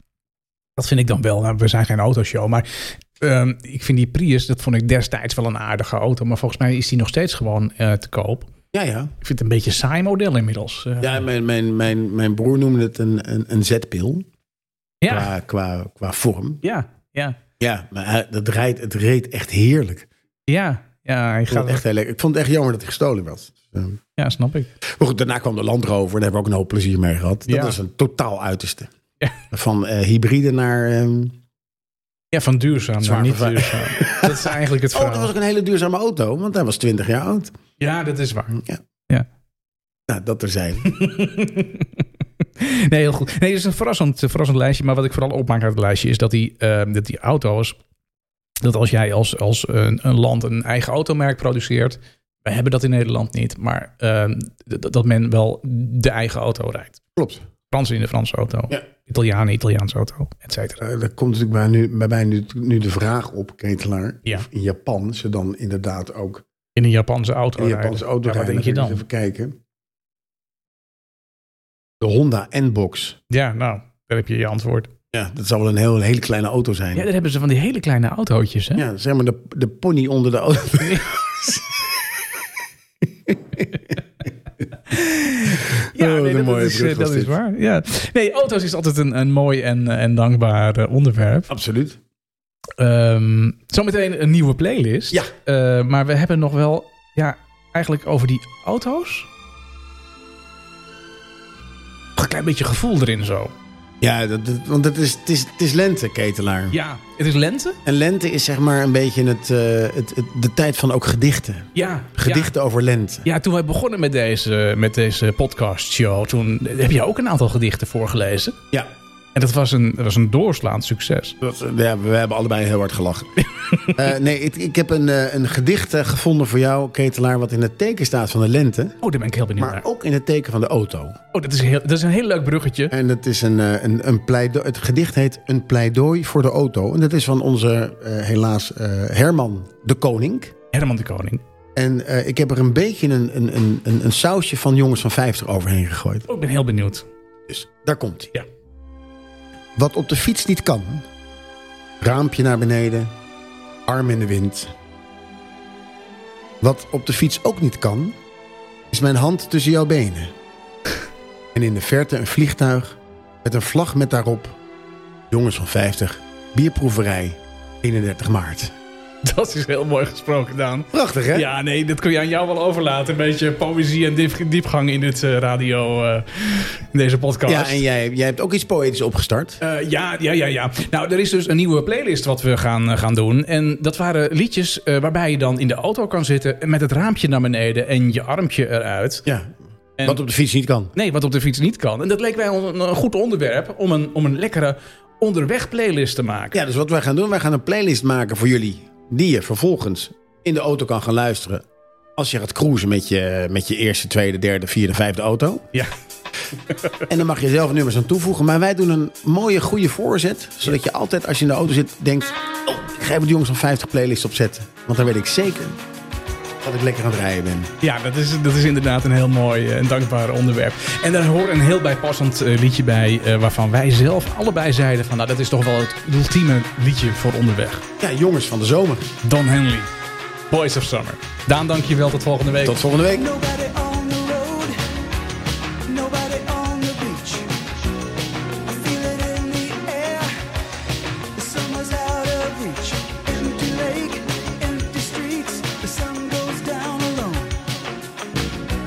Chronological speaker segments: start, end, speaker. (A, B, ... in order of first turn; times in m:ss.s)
0:00.8-0:08.5 A
0:08.7-0:09.1 B
0:09.2-0:11.2 A
0:11.0-0:14.3 B
0:15.0-0:15.3 A
0:15.1-0:16.6 B
0:16.6-0:17.4 A
0:17.6-0:20.1 B
0:20.5-0:21.8 A
0:21.5-0:24.0 B
0:24.2-0:24.7 A
0:24.8-0:28.9 B
0:27.5-0:27.8 A
0:29.5-0:31.4 B
0:32.3-0:35.3 A
0:33.0-0:37.5 B
0:37.8-0:39.3 A
0:40.1-0:40.9 B
0:40.8-0:42.0 A
0:42.6-0:47.8 A
0:48.6-0:57.0 A
0:57.2-0:57.4 B
0:57.7-1:00.8 A
1:00.8-1:06.4 B
1:06.8-1:09.0 A
1:07.6-1:09.6 B
1:12.0-1:13.2 B
1:13.3-1:14.9 A
1:15.1-1:17.1 B
1:16.9-1:18.8 A
1:18.7-1:22.0 B
1:20.8-1:21.1 A
1:23.0-1:23.9 B
1:24.9-1:31.5 A
1:25.7-1:27.4 B
1:31.5-1:32.0 B
1:32.8-1:39.3 A
1:42.2-1:43.5 A
1:44.0-1:46.8 B
1:46.7-1:47.8 A
1:47.8-1:53.2 B
1:51.7-1:52.5 A
1:53.2-1:58.6 A
1:59.3-2:01.4 A
2:01.4-2:09.0 B
2:03.6-2:04.0 A
2:09.0-2:09.8 A
2:09.6-2:11.2 B
2:11.3-2:12.9 A
2:12.9-2:20.5 B
2:20.7-2:21.4 A
2:21.8-2:26.3 B
2:26.3-2:27.1 A
2:27.5-2:28.3 B
2:29.8-2:31.1 B
2:32.0-2:33.1 B
2:33.8-2:34.7 B
2:36.6-2:38.2 B
2:38.9-2:40.3 B
2:41.5-2:44.6 B
2:45.3-2:48.7 B
2:49.2-2:57.8 A
2:50.9-2:51.5 B
2:57.4-2:59.6 B
2:59.6-3:09.2 A
3:09.2-3:10.9 B
3:10.9-3:16.6 A
3:16.5-3:21.6 B
3:22.2-3:25.6 B
3:26.7-3:27.0 A
3:27.1-3:35.8 B
3:36.6-3:37.7 B
3:37.8-3:47.8 A
3:48.0-3:49.1 B
3:49.2-3:49.9 A
3:50.5-3:52.8 A
3:52.6-3:53.3 B
3:53.1-3:54.8 C
3:55.8-3:57.5 C
3:58.6-4:00.3 C
4:01.3-4:07.6 C